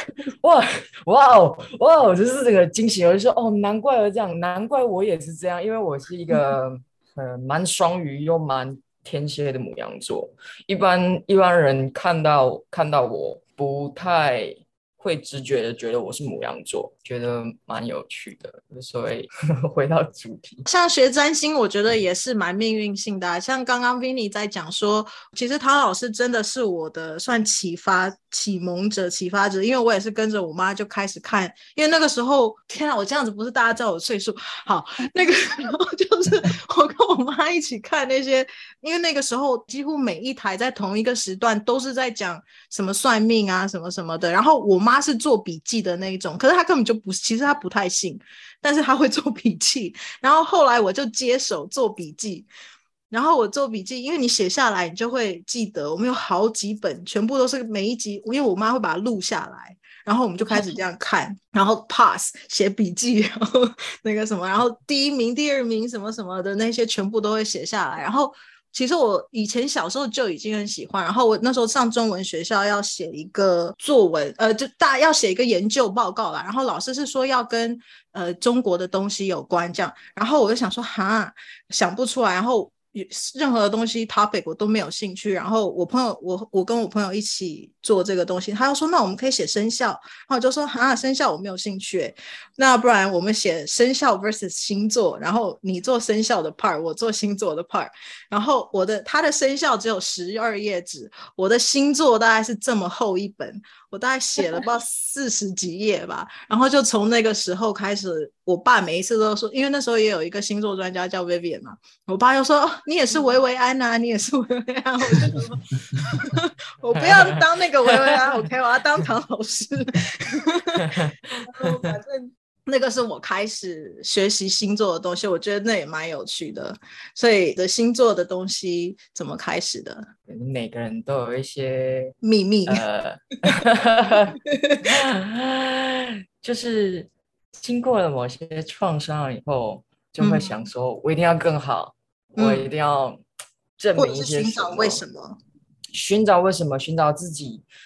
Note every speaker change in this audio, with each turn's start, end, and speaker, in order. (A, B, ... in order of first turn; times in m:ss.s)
0:00.4-0:20.6 A
0:20.7-0:52.5 B
0:53.1-2:10.1 B
1:57.0-1:58.4 A
2:00.8-2:02.0 A
2:10.3-2:23.2 A
2:12.2-2:12.8 B
2:20.2-2:20.6 B
2:22.4-2:22.7 B
2:23.8-2:25.0 A
2:24.0-2:25.4 B
2:25.9-2:27.6 A